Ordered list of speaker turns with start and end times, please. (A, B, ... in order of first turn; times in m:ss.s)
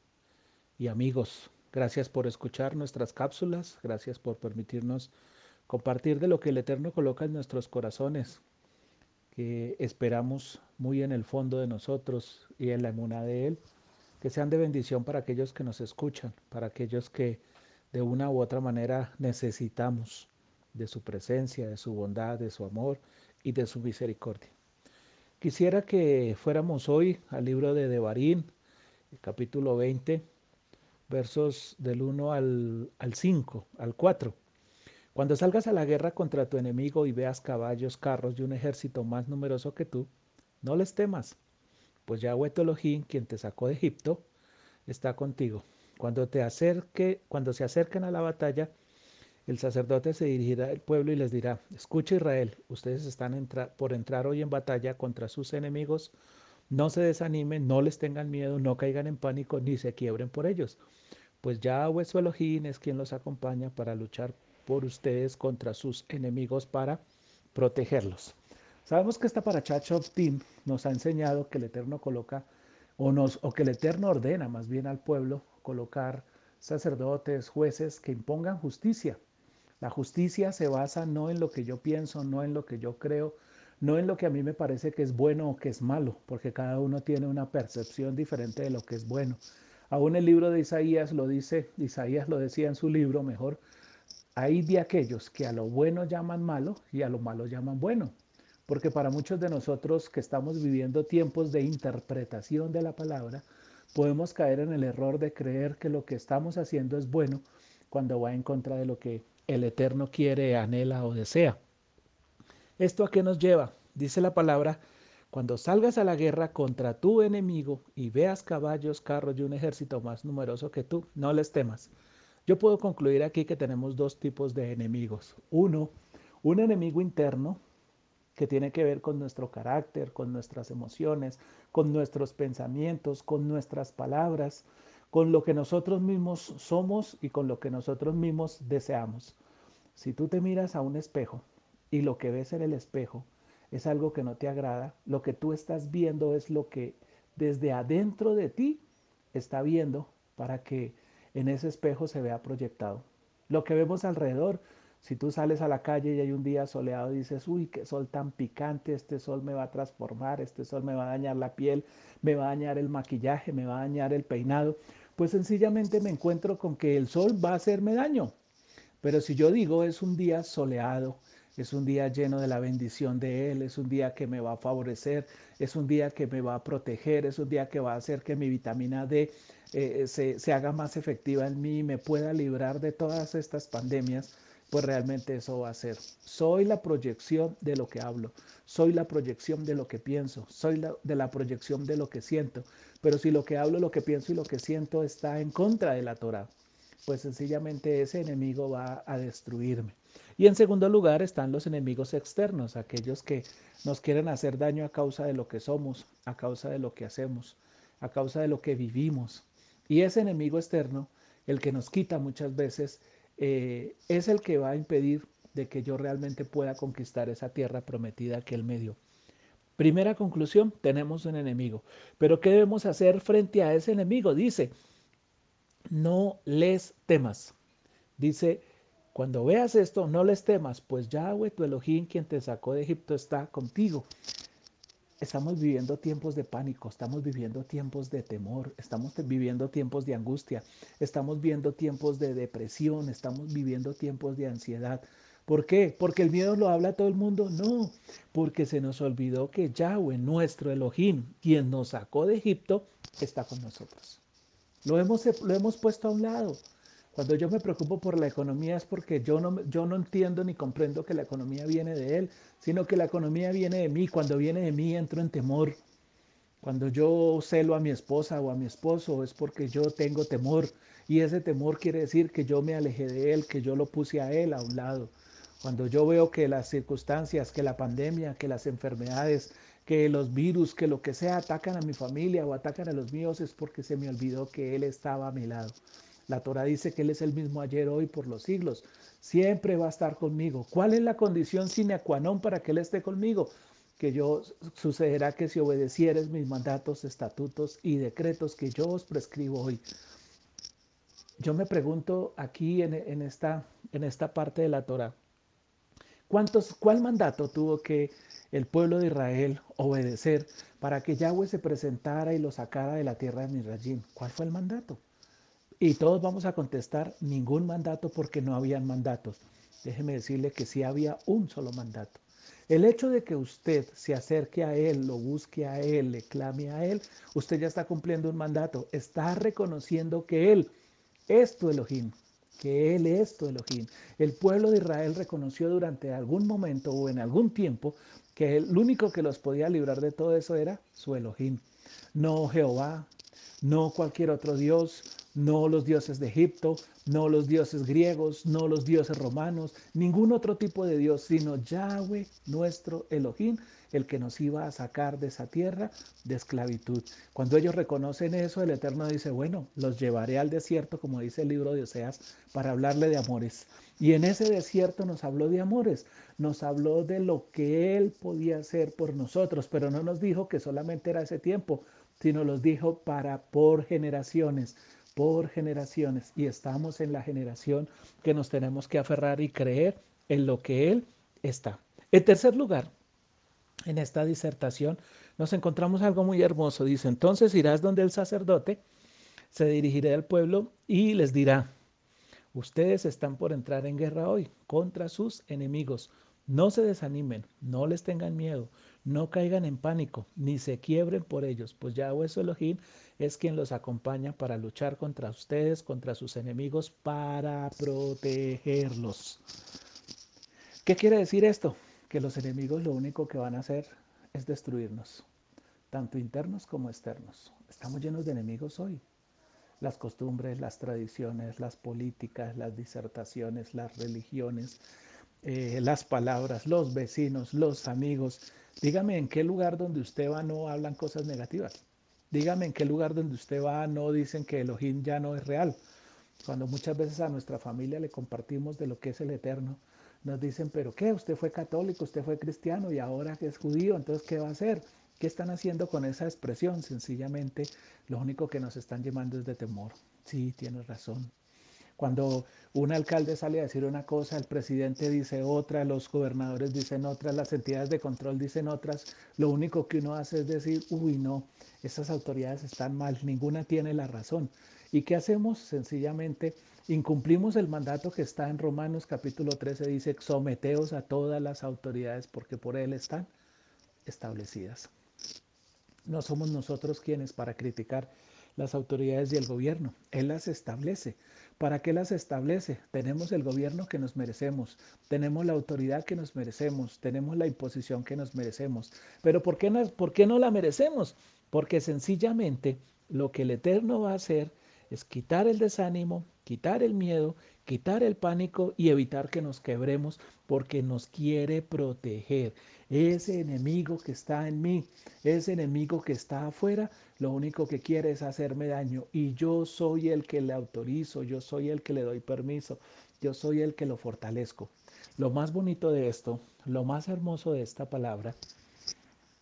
0:00.8-0:05.1 A
0:05.7-0:08.4 A
0:09.3-0:13.6 A
0:14.2-0:24.5 A
0:25.4-0:28.5 A
0:29.1-0:30.2 A
0:31.1-0:34.4 A
0:35.1-0:40.1 A
0:40.6-0:41.4 A
0:42.0-0:44.2 A
0:44.9-0:48.7 A
0:49.4-0:56.1 A
0:56.7-1:00.8 A
1:01.4-1:07.0 A
1:07.5-1:19.2 A
1:19.8-1:33.6 A
1:34.4-1:38.1 A
1:38.7-1:51.6 A
1:52.8-1:54.8 A
1:55.3-2:01.9 A
2:02.4-2:07.6 A
2:08.3-2:19.4 A
2:19.9-2:28.8 A
2:29.3-2:48.3 A
2:49.0-3:16.5 A
3:17.0-3:39.0 A
3:39.8-3:44.7 A
3:45.9-3:47.5 A
3:48.2-3:54.1 A
3:55.2-4:14.2 A
4:14.8-4:16.6 A
4:17.1-4:25.8 A
4:26.6-4:45.8 A
4:46.3-4:59.8 A
5:01.4-5:05.1 A
5:06.3-5:15.0 A
5:15.8-5:30.7 A
5:31.3-5:41.6 A
5:42.1-5:43.1 A
5:43.6-6:22.9 A
6:23.8-6:28.8 A
6:29.5-6:31.7 A
6:32.5-6:49.4 A
6:50.8-6:55.2 A
6:55.9-6:59.0 A
6:59.8-7:04.8 A
7:05.4-7:15.8 A
7:16.4-7:31.3 A
7:32.0-7:53.3 A
7:54.0-7:54.9 A
7:56.0-8:38.3 A